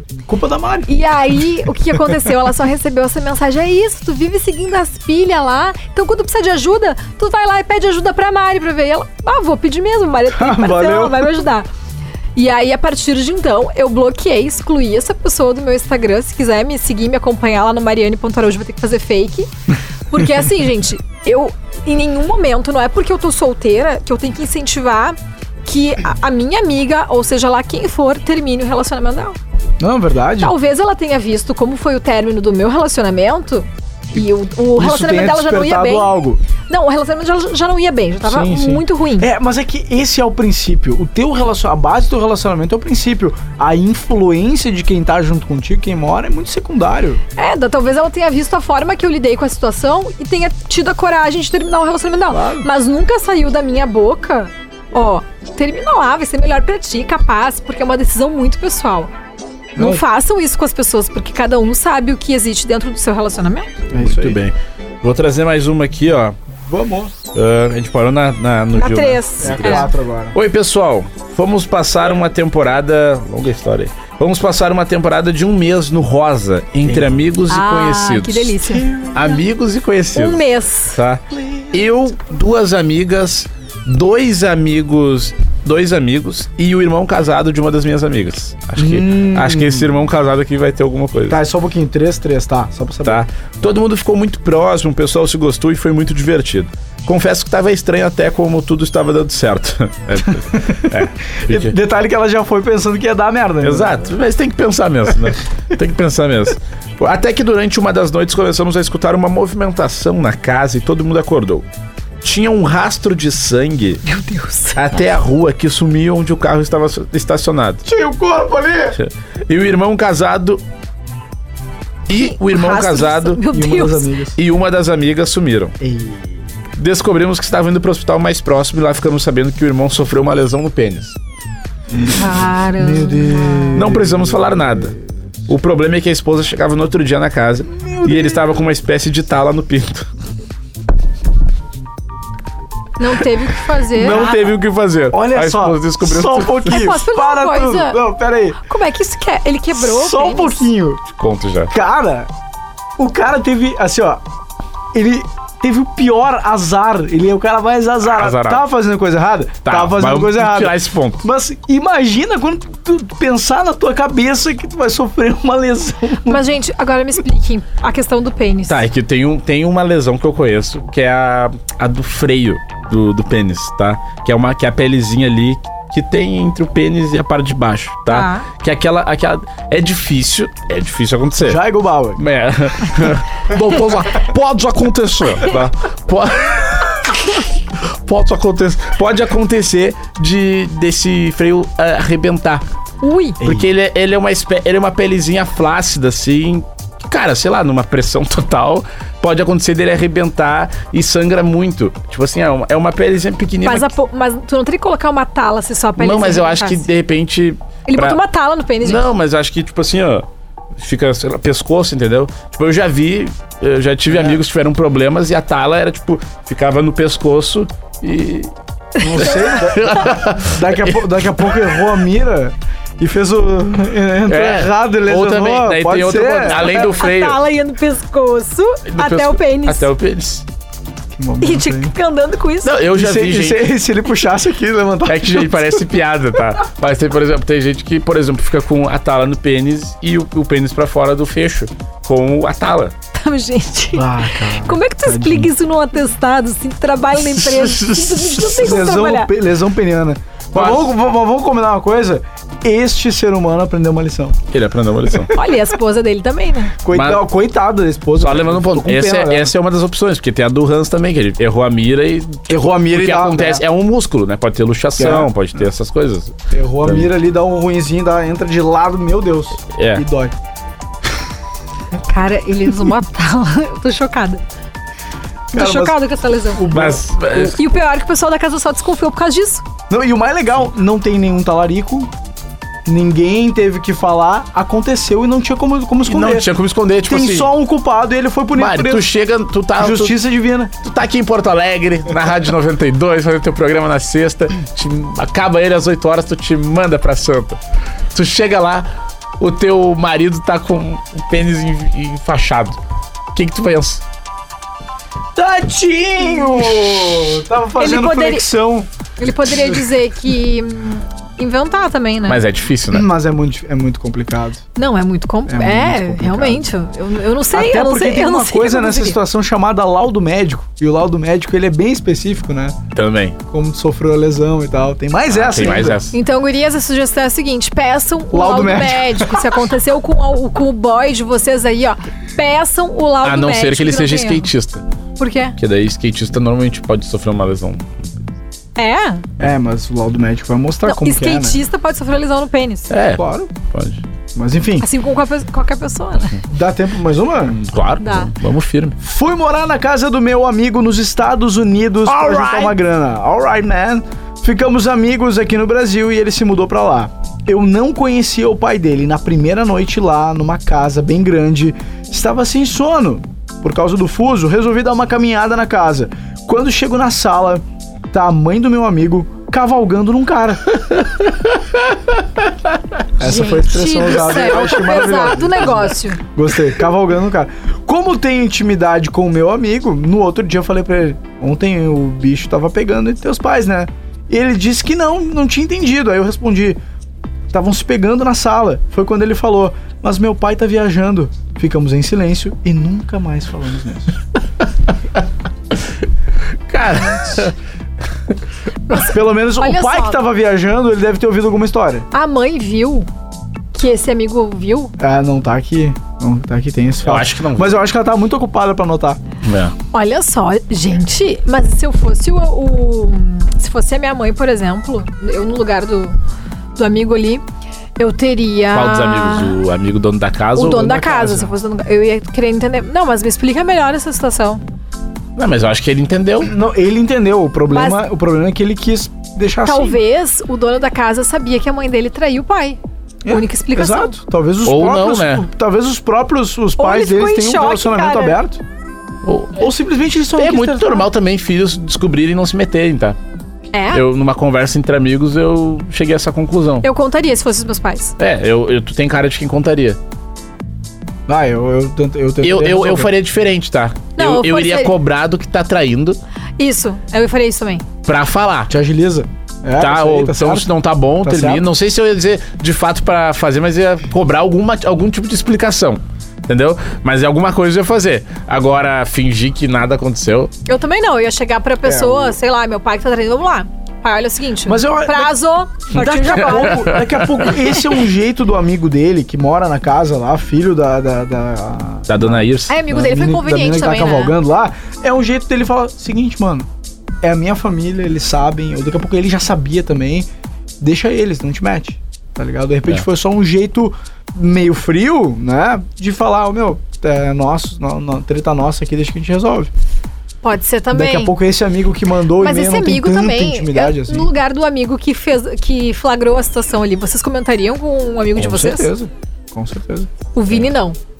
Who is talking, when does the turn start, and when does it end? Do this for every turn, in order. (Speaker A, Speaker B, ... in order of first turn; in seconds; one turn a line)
Speaker A: 0.3-0.9
Speaker B: 0.9-11.7
Speaker A: 10.3-11.4
Speaker B: 12.4-19.5
Speaker B: 20.1-29.4
Speaker A: 29.8-30.6
Speaker B: 30.4-36.2
Speaker A: 34.7-36.4
Speaker B: 36.7-39.3
Speaker A: 38.2-47.2
Speaker B: 47.4-59.1
Speaker A: 52.3-52.7
Speaker A: 59.8-60.0
Speaker B: 59.8-63.7
Speaker A: 63.9-64.4
Speaker C: 64.0-66.4
Speaker A: 66.5-67.2
Speaker C: 67.3-91.4
Speaker B: 68.8-69.9
Speaker A: 69.4-70.4
Speaker B: 77.5-78.9
Speaker A: 78.7-79.3
Speaker B: 80.2-81.0
Speaker A: 81.3-81.9
Speaker A: 88.8-89.9
Speaker A: 91.3-93.2
Speaker C: 93.0-101.7
Speaker A: 100.2-104.0
Speaker C: 103.6-111.6
Speaker C: 112.2-114.0
Speaker B: 114.1-114.8
Speaker C: 114.8-117.8
Speaker A: 117.8-119.0
Speaker C: 119.0-120.6
Speaker C: 122.1-123.4
Speaker B: 122.1-124.1
Speaker A: 123.5-124.4
Speaker C: 124.4-125.8
Speaker A: 125.8-126.4
Speaker C: 126.8-131.2
Speaker A: 131.9-135.0
Speaker B: 132.1-133.8
Speaker C: 133.7-135.0
Speaker C: 135.5-140.1
Speaker A: 137.7-138.6
Speaker B: 143.0-144.3
Speaker A: 143.9-144.6
Speaker C: 144.0-146.8
Speaker A: 145.1-148.6
Speaker B: 146.7-148.0
Speaker B: 148.6-150.7
Speaker A: 149.8-151.0
Speaker C: 151.1-151.7
Speaker A: 151.7-152.3
Speaker A: 153.0-154.2
Speaker A: 154.9-166.4
Speaker C: 158.1-158.6
Speaker C: 159.7-161.2
Speaker B: 166.3-168.9
Speaker C: 168.7-181.6
Speaker B: 178.1-178.5
Speaker A: 181.4-182.2
Speaker C: 182.2-192.6
Speaker B: 193.0-193.4
Speaker C: 193.4-203.9
Speaker B: 203.6-206.9
Speaker C: 206.0-208.2
Speaker B: 207.9-209.0
Speaker C: 208.8-210.2
Speaker C: 210.8-218.5
Speaker A: 214.1-214.4
Speaker B: 219.0-219.6
Speaker A: 219.0-226.8
Speaker C: 219.1-221.5
Speaker C: 224.3-227.4
Speaker B: 226.6-229.9
Speaker C: 228.9-230.4
Speaker A: 231.2-231.9
Speaker B: 231.4-232.8
Speaker C: 232.6-233.6
Speaker A: 232.9-235.8
Speaker C: 235.1-242.9
Speaker B: 243.1-249.3
Speaker A: 243.9-245.5
Speaker C: 247.2-248.8
Speaker A: 248.5-254.5
Speaker C: 250.5-250.9
Speaker C: 254.5-255.4
Speaker B: 255.3-256.8
Speaker A: 256.8-259.5
Speaker C: 256.9-257.2
Speaker C: 258.2-267.1
Speaker A: 262.5-263.6
Speaker A: 265.0-265.3
Speaker A: 266.5-270.4
Speaker C: 269.8-270.1
Speaker B: 272.0-274.4
Speaker A: 275.5-276.0
Speaker B: 275.5-276.7
Speaker A: 276.5-277.2
Speaker C: 276.7-277.6
Speaker B: 277.3-279.6
Speaker A: 279.9-282.1
Speaker A: 282.9-286.5
Speaker C: 286.1-287.5
Speaker A: 287.1-289.1
Speaker C: 288.6-290.2
Speaker A: 289.8-290.7
Speaker C: 290.8-297.6
Speaker C: 298.1-298.9
Speaker C: 299.4-302.8
Speaker C: 303.4-304.0
Speaker A: 305.4-308.9
Speaker B: 307.8-308.5
Speaker B: 309.2-312.4
Speaker C: 312.3-313.1
Speaker A: 312.9-314.6
Speaker B: 314.8-319.2
Speaker A: 315.5-316.7
Speaker A: 317.5-322.8
Speaker C: 322.9-323.4
Speaker A: 323.5-326.0
Speaker C: 325.3-326.2
Speaker B: 326.1-334.5
Speaker A: 328.3-329.4
Speaker C: 333.2-334.8
Speaker B: 335.2-335.6
Speaker C: 335.6-338.1
Speaker B: 338.8-339.3
Speaker A: 339.4-341.6
Speaker B: 340.9-342.9
Speaker C: 342.9-344.0
Speaker A: 343.1-343.5
Speaker A: 344.4-344.9
Speaker B: 344.8-346.4
Speaker A: 346.5-347.6
Speaker C: 347.5-349.0
Speaker B: 348.0-348.3
Speaker A: 349.0-370.6
Speaker C: 352.1-352.8
Speaker A: 373.2-386.8
Speaker B: 373.2-376.2
Speaker A: 387.5-394.2
Speaker C: 396.7-397.6
Speaker B: 398.9-400.2
Speaker A: 398.9-402.1
Speaker B: 402.1-403.1
Speaker B: 403.8-404.9
Speaker A: 405.0-409.2
Speaker C: 407.1-407.8
Speaker C: 409.4-409.7
Speaker B: 409.9-416.2
Speaker B: 416.8-417.4
Speaker B: 418.0-419.6
Speaker C: 418.7-420.8
Speaker B: 420.6-424.6
Speaker A: 420.6-421.5
Speaker C: 425.4-426.5
Speaker A: 426.4-430.0
Speaker B: 427.7-428.0
Speaker B: 429.6-434.2
Speaker A: 433.2-438.6
Speaker C: 434.6-435.5
Speaker B: 436.8-438.4
Speaker C: 439.2-439.6
Speaker A: 439.6-441.1
Speaker C: 440.4-443.2
Speaker B: 443.7-444.0
Speaker C: 443.9-446.9
Speaker B: 446.8-448.1
Speaker C: 448.2-450.0
Speaker A: 451.3-453.1
Speaker C: 452.4-456.2
Speaker B: 454.2-454.9
Speaker B: 456.6-457.9
Speaker C: 458.1-458.7
Speaker A: 458.7-460.7
Speaker C: 459.8-470.5
Speaker A: 461.2-461.7
Speaker B: 470.7-477.0
Speaker A: 471.8-472.4
Speaker A: 474.6-475.4
Speaker A: 475.9-486.7
Speaker C: 476.0-477.8
Speaker C: 482.1-482.8
Speaker B: 482.7-484.3
Speaker A: 487.2-490.3
Speaker A: 490.8-499.7
Speaker B: 500.4-501.4
Speaker A: 500.9-504.3
Speaker B: 502.4-508.9
Speaker A: 508.4-510.1
Speaker B: 510.3-511.0